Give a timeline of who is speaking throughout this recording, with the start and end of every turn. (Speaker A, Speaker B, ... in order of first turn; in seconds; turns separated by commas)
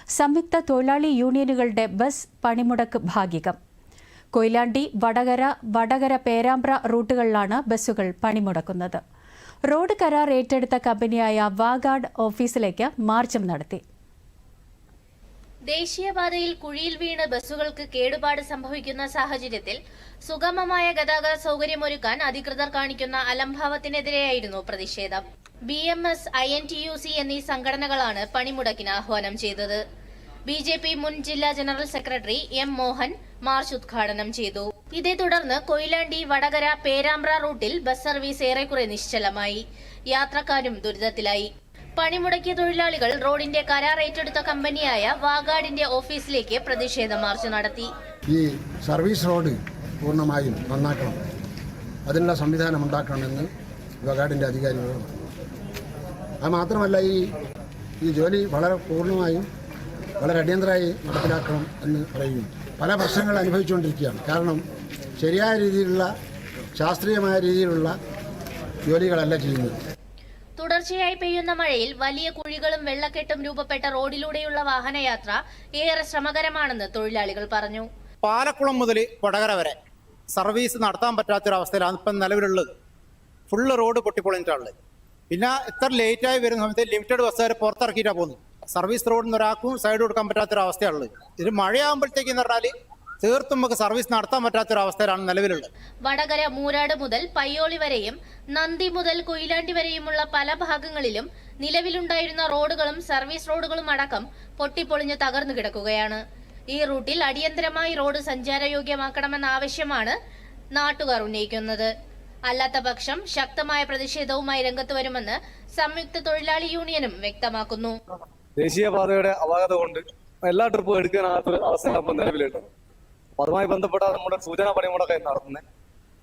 Speaker A: 0.1-3.6, Speaker A: 4.3-9.0, Speaker A: 9.7-13.8, Speaker B: 15.7-29.8, Speaker B: 30.5-47.9, Speaker C: 48.3-51.2, Speaker C: 52.1-53.5, Speaker C: 54.0-55.1, Speaker C: 56.4-57.3, Speaker C: 58.0-59.5, Speaker C: 60.2-64.6, Speaker C: 65.2-66.1, Speaker C: 66.8-67.9, Speaker C: 68.9-69.8, Speaker B: 70.6-77.9, Speaker D: 78.2-79.8, Speaker D: 80.3-82.7, Speaker D: 83.5-84.7, Speaker D: 85.3-92.7, Speaker D: 93.2-95.7, Speaker B: 96.0-106.2, Speaker B: 106.7-110.2, Speaker B: 110.8-111.9, Speaker B: 112.5-118.0, Speaker E: 118.6-122.7, Speaker E: 123.4-125.6